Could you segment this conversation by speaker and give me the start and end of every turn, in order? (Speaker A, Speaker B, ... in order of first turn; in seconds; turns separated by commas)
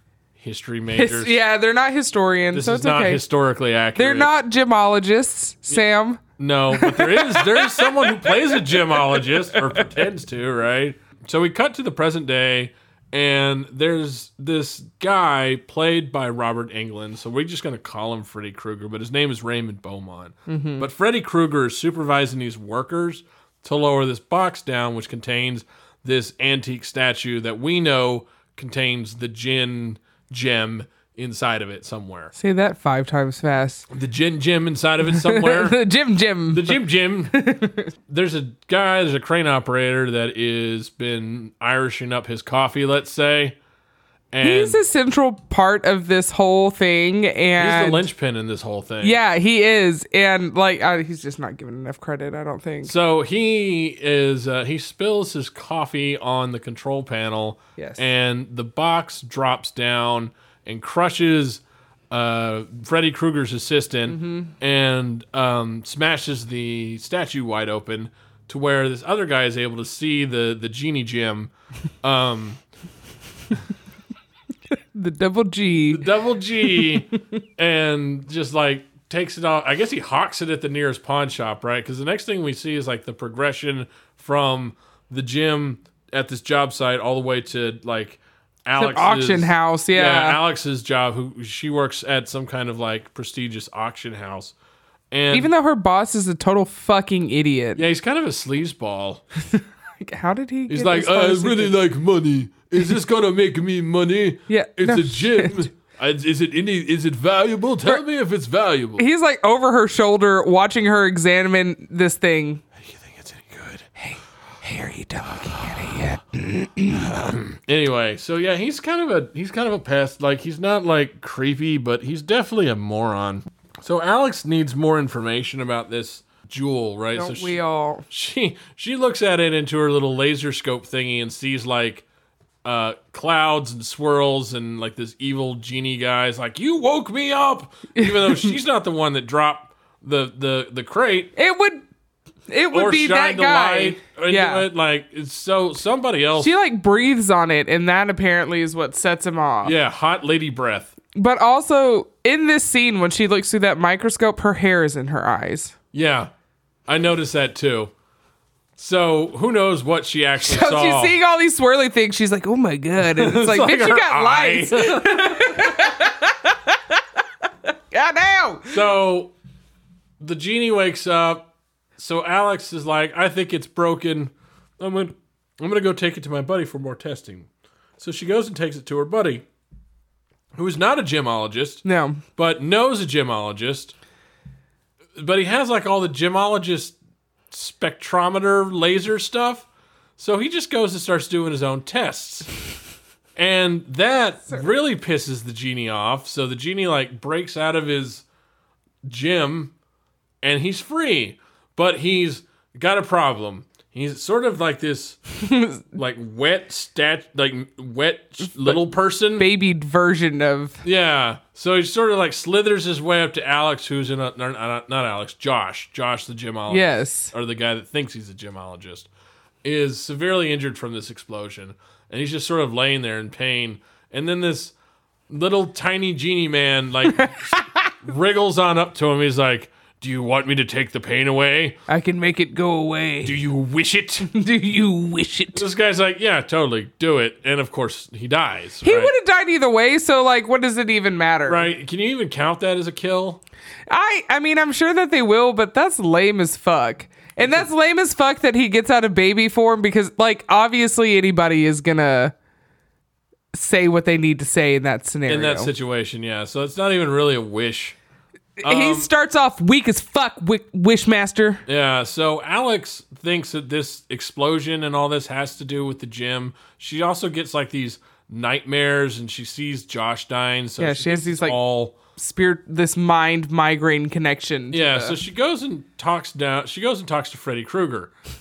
Speaker A: 0.4-1.4, Speaker B: 0.9-3.2, Speaker A: 2.5-4.3, Speaker B: 3.9-9.8, Speaker A: 6.4-32.3, Speaker B: 20.5-20.9, Speaker B: 32.3-33.8, Speaker A: 33.9-35.8, Speaker B: 35.1-37.9, Speaker A: 36.5-37.4, Speaker A: 38.1-43.6, Speaker A: 44.3-44.8, Speaker B: 44.4-48.1, Speaker A: 47.6-49.2, Speaker B: 49.0-52.9, Speaker A: 52.8-71.5, Speaker B: 57.8-58.0, Speaker B: 64.1-64.5, Speaker A: 72.0-72.6, Speaker B: 74.9-76.0, Speaker A: 75.9-94.5, Speaker B: 76.7-77.2, Speaker B: 88.7-90.4, Speaker A: 95.1-95.5, Speaker B: 95.3-97.8, Speaker A: 97.8-99.2, Speaker B: 99.4-101.8, Speaker A: 100.7-109.0, Speaker B: 104.5-105.7, Speaker B: 109.0-112.6, Speaker A: 112.8-113.9, Speaker B: 114.0-117.1, Speaker A: 115.4-116.0, Speaker A: 116.9-127.6, Speaker B: 127.1-128.0, Speaker A: 128.1-132.0, Speaker A: 132.6-141.3, Speaker B: 137.9-138.6, Speaker B: 141.3-141.8, Speaker B: 142.5-144.7, Speaker A: 142.7-146.5, Speaker B: 146.3-149.8, Speaker A: 149.6-150.9, Speaker B: 151.1-155.7, Speaker A: 155.9-156.3, Speaker A: 156.9-157.9, Speaker A: 158.8-161.2, Speaker B: 160.4-166.8, Speaker A: 163.0-165.9, Speaker B: 167.9-168.8, Speaker A: 168.7-169.3, Speaker A: 170.2-171.4, Speaker A: 172.0-179.4, Speaker A: 180.6-183.9, Speaker B: 181.8-182.2, Speaker A: 185.2-186.9, Speaker A: 187.5-189.7, Speaker A: 190.2-192.5, Speaker A: 193.3-198.2, Speaker A: 199.0-199.7, Speaker A: 200.4-205.3, Speaker B: 205.3-205.8, Speaker A: 205.9-209.4, Speaker B: 209.3-210.8, Speaker A: 210.8-219.1, Speaker B: 216.7-217.3, Speaker A: 219.6-224.7, Speaker A: 225.3-231.8, Speaker B: 231.9-233.4, Speaker A: 233.2-234.3, Speaker B: 234.2-235.7, Speaker A: 235.5-239.1, Speaker B: 238.8-241.7, Speaker A: 241.4-243.4, Speaker B: 243.9-252.3, Speaker A: 247.4-247.7, Speaker B: 253.5-255.7, Speaker A: 255.3-258.0, Speaker B: 258.6-261.6, Speaker A: 258.6-259.1, Speaker A: 261.6-272.0, Speaker B: 270.8-271.6, Speaker B: 272.1-275.2, Speaker A: 274.7-278.1